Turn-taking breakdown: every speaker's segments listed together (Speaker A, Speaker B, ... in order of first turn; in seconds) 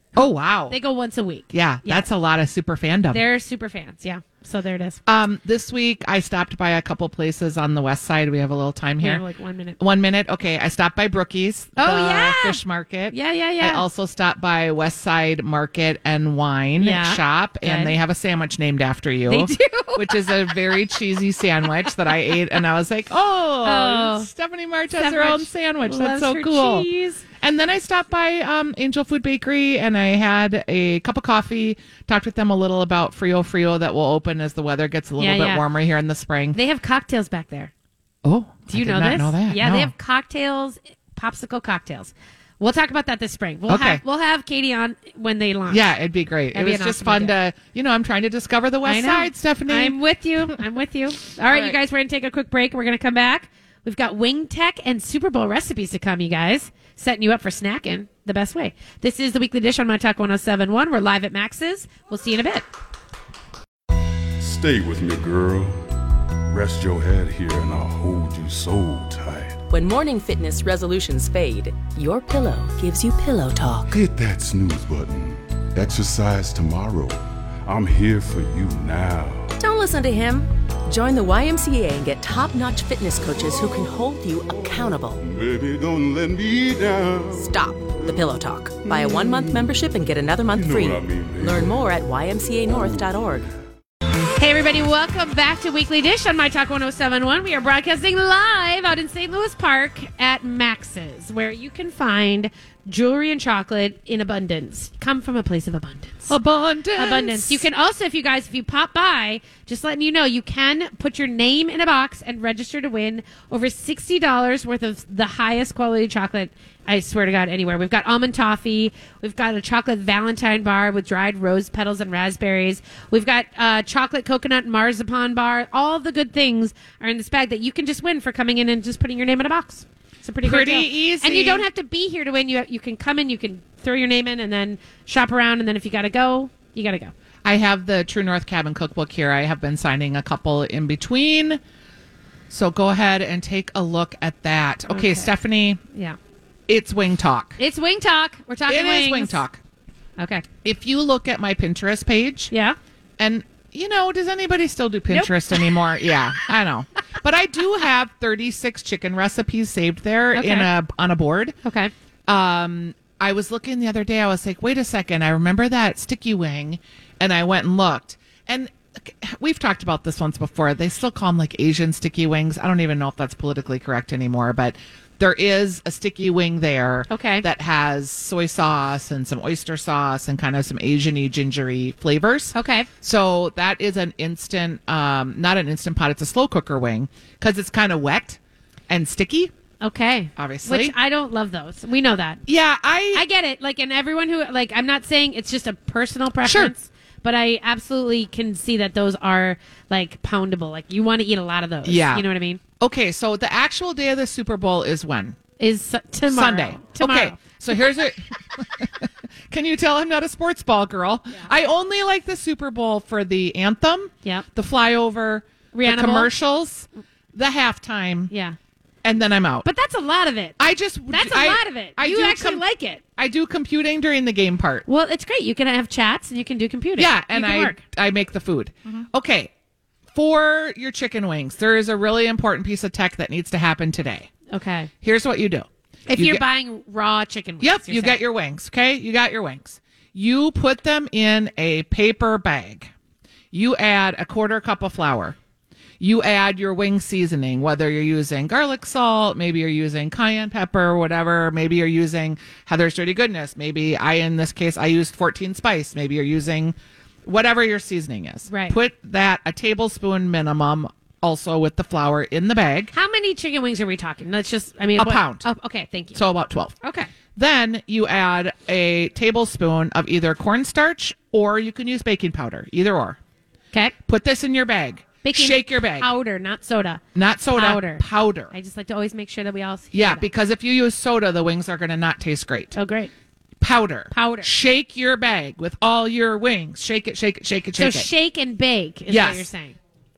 Speaker A: 0.1-0.8, 1.5-3.2, 5.1-9.2, 9.8-26.9, 27.4-36.6, 38.2-39.9, 43.7-44.0, 45.7-50.0, 51.5-51.8, 106.3-107.6, 130.4-131.6, 137.4-141.6, 142.5-145.8, 146.7-147.6, 148.7-149.6, 150.6-152.5, 153.2-161.5, 162.3-189.5, 190.3-190.9, 192.4-193.2, 196.4-196.7, 201.8-202.2, 202.8-205.4, 206.3-218.3, 219.0-219.7, 220.6-222.6, 223.2-224.8, 227.0-229.5, 230.1-234.3, 235.0-236.4, 237.6-242.9, 243.5-245.3, 246.0-262.9, 264.9-265.5, 266.1-266.7, 267.4-273.2, 274.1-276.1, 277.1-278.5, 279.9-282.8, 283.6-288.1, 289.1-289.5
Speaker B: 0.7-2.1, 3.1-5.0, 9.0-9.8, 11.8-13.8, 16.8-17.9, 19.3-20.9, 21.8-22.4, 23.6-24.3, 24.9-27.2, 35.2-35.6, 36.5-37.7, 38.7-45.9, 46.5-47.4, 48.8-62.7, 94.4-106.3, 107.0-137.1, 144.9-145.3, 147.6-149.4, 150.2-150.4, 152.5-152.8, 155.1-155.8, 160.3-160.7, 161.6-161.9, 177.1-177.4, 182.5-182.9, 189.8-192.4, 193.1-202.6, 205.6-207.4, 215.7-216.3, 218.3-218.6, 219.6-220.6, 221.1-223.0, 224.8-227.8, 234.5-234.9, 236.1-238.2, 258.5-258.8, 262.9-266.2, 266.8-267.1, 275.2-277.0, 277.5-280.3, 282.7-283.1, 284.1-284.5, 287.8-289.8
Speaker C: 64.4-65.8, 66.5-69.6, 73.9-79.5, 85.2-87.5, 88.9-89.7, 90.5-91.8
Speaker D: 69.7-74.0, 79.6-85.2, 87.3-93.5